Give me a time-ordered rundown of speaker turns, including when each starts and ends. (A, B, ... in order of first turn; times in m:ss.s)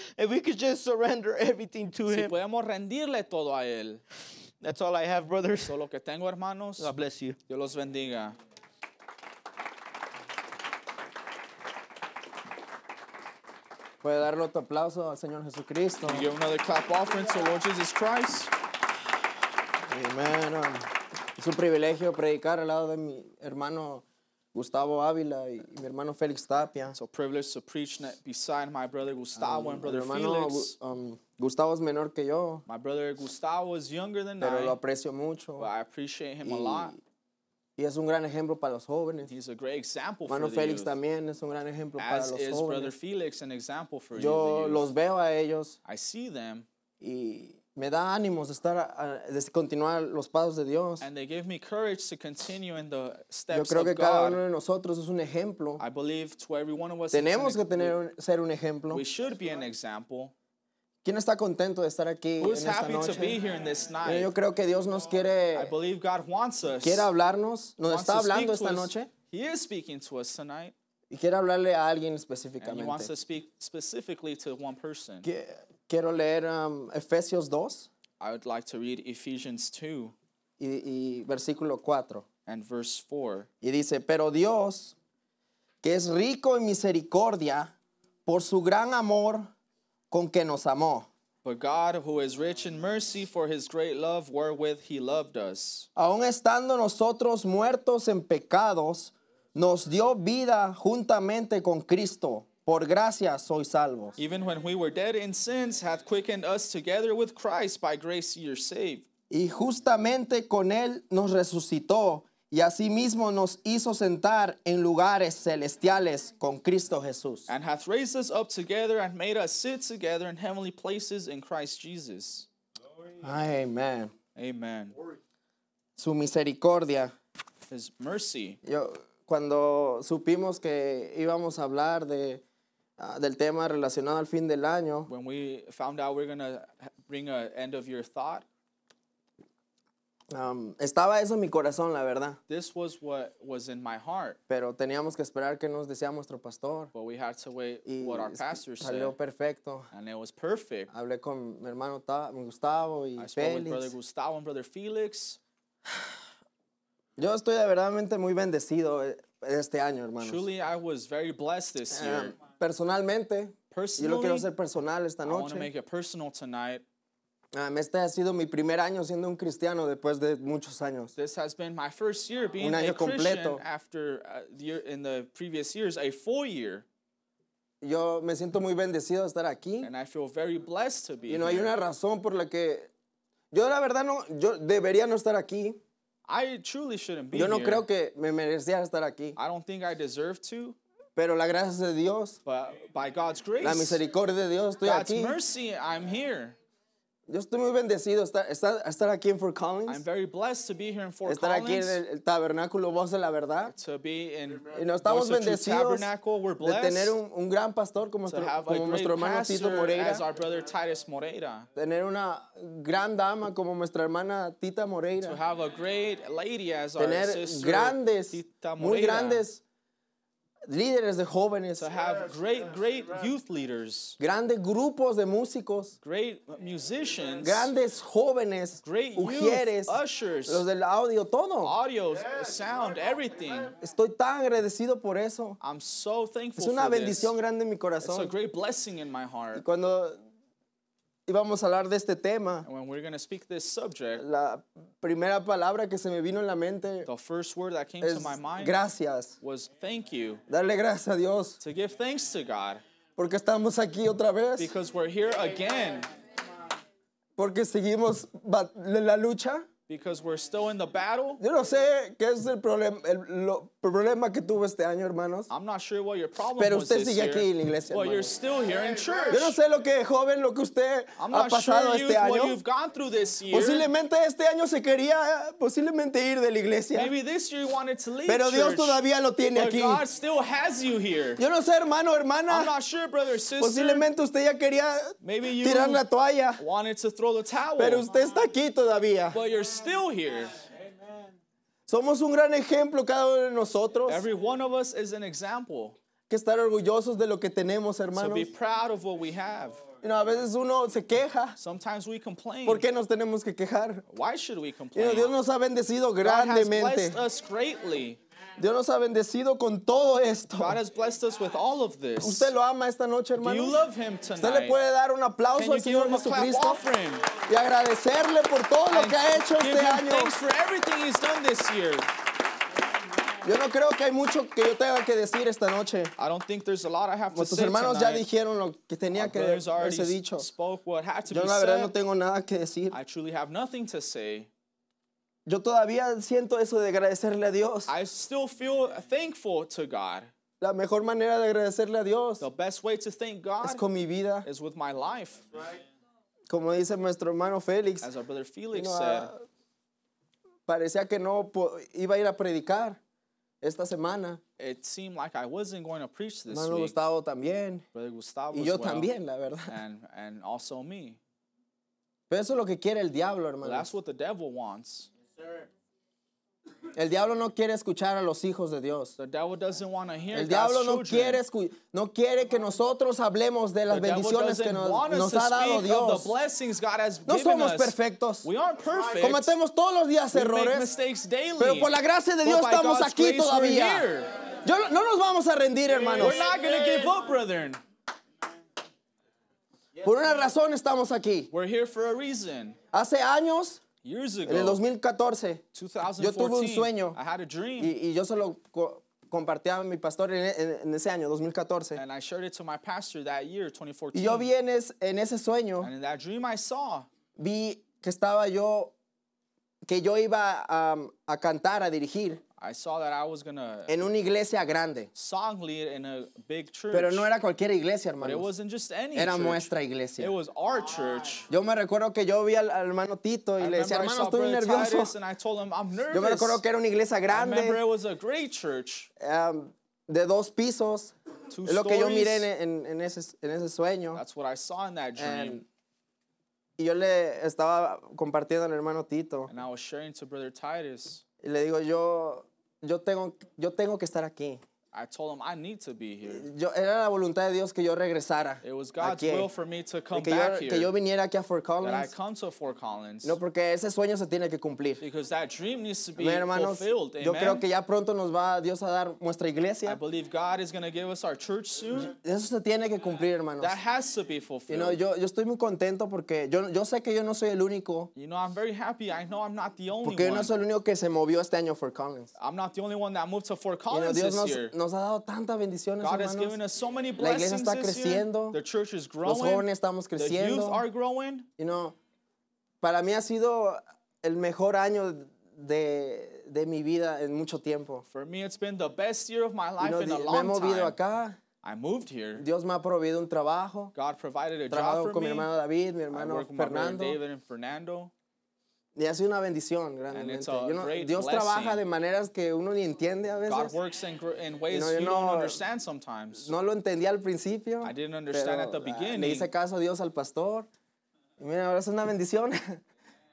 0:00.2-0:02.3 A
0:02.1-0:04.0 B
0:04.6-0:05.8 A
0:05.6-0:06.9 B
0:06.8-0:07.4 A
0:07.5-0:08.4 B
0:14.0-0:16.3 C
0:16.1-0:18.5 B
0:19.9-0:27.0 C
0:27.0-0:30.8 B
0:29.4-0:32.6 C
0:32.7-0:34.8 B
0:34.4-0:35.7 C
0:35.6-0:37.0 B
0:36.4-0:37.0 C
0:37.8-0:39.3 C
0:39.3-0:41.0 B
0:40.3-0:42.9 C
0:42.0-0:44.8 B
0:44.2-0:45.8 C
0:45.8-0:46.7 B
0:47.0-0:51.1 C
0:51.0-0:54.4 B
0:53.5-0:55.8 C
0:55.8-0:58.0 B
0:57.1-0:59.0 C
0:58.9-1:00.3 B
1:01.0-1:03.4 C
1:02.4-1:04.3 B
1:04.0-1:05.8 C
1:05.6-1:07.1 B
1:06.8-1:09.1 C
1:07.8-1:10.7 B
1:11.1-1:13.1 C
1:12.6-1:15.3 B
1:15.2-1:17.9 C
1:18.2-1:20.1 B
1:20.6-1:22.3 C
1:22.5-1:23.5 B
1:23.6-1:25.0 C
1:25.8-1:27.7 C
1:28.3-1:29.5 C
1:30.1-1:31.1 C
1:31.4-1:35.9 B
1:36.0-1:44.2 C
1:44.2-1:49.1 B
1:49.3-1:57.5 C
1:57.5-2:02.5 B
2:03.2-2:04.1 C
2:04.4-2:05.0 B
2:06.0-2:07.1 C
2:07.7-2:08.6 B
2:08.6-2:12.4 C
2:13.0-2:15.1 C
2:15.1-2:18.4 B
2:20.3-2:22.4 C
2:22.5-2:24.4 B
2:24.5-2:26.9 C
2:26.9-2:29.2 B
2:27.9-2:29.9 C
2:29.9-2:30.9 B
2:30.9-2:33.9 C
2:33.2-2:35.4 B
2:37.2-2:40.5 C
2:40.2-2:42.4 B
2:41.9-2:45.7 C
2:43.7-2:44.5 B
2:45.2-2:46.8 B
2:47.5-2:51.1 C
2:51.2-2:56.8 B
2:52.6-2:53.6 C
2:57.8-2:59.9 C
2:59.8-3:01.7 B
3:01.3-3:02.9 C
3:03.5-3:05.8 C
3:06.3-3:07.9 B
3:07.3-3:09.4 C
3:09.4-3:10.8 B
3:11.2-3:12.4 C
3:12.5-3:14.0 B
3:13.6-3:15.4 C
3:14.8-3:16.6 B
3:17.3-3:20.0 C
3:19.9-3:22.0 B
3:21.2-3:23.8 C
3:23.7-3:27.2 B
3:24.7-3:26.1 C
3:26.6-3:30.2 C
3:28.3-3:31.7 B
3:31.8-3:35.4 C
3:35.2-3:39.4 B
3:37.0-3:39.6 C
3:40.7-3:41.9 C
3:41.8-3:44.2 B
3:44.2-3:46.0 C
3:46.0-3:47.7 B
3:47.4-3:51.8 C
3:48.8-3:50.7 B
3:51.6-3:53.8 B
3:53.8-3:55.6 C
3:55.6-3:57.4 B
3:56.6-3:58.3 C
3:58.0-3:59.6 B
3:59.6-4:00.2 C
4:01.3-4:02.7 C
4:02.6-4:04.2 B
4:04.2-4:07.1 C
4:07.0-4:08.8 B
4:08.0-4:09.4 C
4:09.4-4:10.4 B
4:10.5-4:11.6 C
4:11.6-4:12.8 B
4:13.2-4:14.7 C
4:14.6-4:16.1 B
4:17.4-4:19.7 C
4:19.9-4:21.4 B
4:21.4-4:25.5 C
4:25.5-4:29.6 B
4:26.6-4:28.3 C
4:29.3-4:32.6 C
4:31.2-4:33.9 B
4:33.5-4:37.1 C
4:36.9-4:41.4 B
4:38.3-4:40.0 C
4:41.4-4:42.7 C
4:42.5-4:44.1 B
4:43.6-4:46.6 C
4:45.2-4:46.0 B
4:46.6-4:48.1 B
4:47.8-4:49.4 C
4:49.3-4:50.6 B
4:51.9-4:54.3 C
4:54.1-4:56.0 B
4:56.3-4:58.5 C
4:58.1-4:59.9 B
5:00.0-5:01.6 C
5:01.6-5:02.9 B
5:02.7-5:04.0 C
5:04.1-5:05.4 B
5:05.0-5:07.2 C
5:06.2-5:08.2 B
5:08.6-5:10.8 C
5:10.6-5:12.5 B
5:12.2-5:13.8 C
5:13.4-5:14.8 B
5:14.4-5:16.8 C
5:15.6-5:17.4 B
5:17.4-5:20.3 C
5:18.9-5:22.1 B
5:23.4-5:26.1 C
5:26.2-5:28.3 B
5:27.3-5:30.5 C
5:29.1-5:31.9 B
5:31.3-5:33.0 C
5:32.9-5:34.5 B
5:35.5-5:37.9 C
5:37.9-5:40.3 B
5:40.6-5:42.5 C
5:42.4-5:43.8 B
5:43.6-5:44.5 C
5:44.4-5:45.5 B
5:46.5-5:48.1 C
5:48.0-5:49.3 B
5:48.7-5:49.4 C
5:50.7-5:53.0 C
5:53.6-5:54.4 C
5:54.6-5:57.0 B
5:56.5-5:57.8 C
5:57.9-5:59.1 B
5:58.5-5:59.8 C
5:59.7-6:01.2 B
6:02.3-6:03.9 C
6:03.6-6:05.1 B
6:07.0-6:09.2 C
6:09.2-6:11.4 B
6:10.3-6:16.3 C
6:13.9-6:19.6 B
6:17.3-6:18.5 C
6:19.2-6:21.0 C
6:20.3-6:24.3 B
6:21.6-6:24.1 C
6:24.6-6:26.4 C
6:26.2-6:27.8 B
6:30.0-6:31.5 C
6:31.5-6:32.8 B
6:32.9-6:33.8 C
6:34.0-6:34.8 B
6:34.5-6:35.6 C
6:35.8-6:38.0 B
6:36.2-6:37.2 C
6:37.8-6:42.0 C
6:42.0-6:44.5 B
6:44.1-6:45.9 C
6:45.8-6:47.1 B
6:47.4-6:48.9 C
6:49.9-6:52.4 C
6:52.6-6:54.0 B
6:53.9-6:55.1 C
6:55.2-6:57.3 B
6:56.9-6:58.5 C
6:58.2-7:01.5 B
6:59.2-7:00.3 C
7:01.5-7:05.1 C
7:03.6-7:06.6 B
7:06.1-7:07.8 C
7:07.3-7:09.1 B
7:09.2-7:11.1 C
7:11.5-7:12.5 B
7:11.6-7:14.2 C
7:14.1-7:15.6 B
7:15.2-7:15.6 C
7:16.8-7:19.5 C
7:19.5-7:21.2 B
7:21.4-7:24.6 C
7:24.9-7:26.5 B
7:26.3-7:29.5 C
7:28.6-7:30.9 B
7:30.1-7:32.1 C
7:31.8-7:33.4 B
7:33.2-7:35.0 C
7:35.0-7:37.7 B
7:36.2-7:40.0 C
7:39.8-7:42.2 B
7:42.0-7:43.8 C
7:43.6-7:45.0 B
7:44.7-7:48.1 C
7:48.2-7:50.5 B
7:50.0-7:52.3 C
7:52.4-7:54.8 B
7:53.9-7:56.6 C
7:56.0-8:01.5 B
7:57.2-7:58.6 C
7:59.2-8:00.8 C
8:01.6-8:02.0 C
8:02.8-8:08.0 C
8:08.1-8:11.0 B
8:09.8-8:11.4 C
8:11.6-8:12.4 B
8:12.4-8:13.9 C
8:14.0-8:15.5 B
8:14.7-8:17.2 C
8:16.1-8:18.1 B
8:19.0-8:23.8 C
8:20.1-8:21.8 B
8:23.5-8:26.5 B
8:24.7-8:25.6 C
8:26.3-8:30.7 C
8:27.8-8:29.5 B
8:31.4-8:32.8 C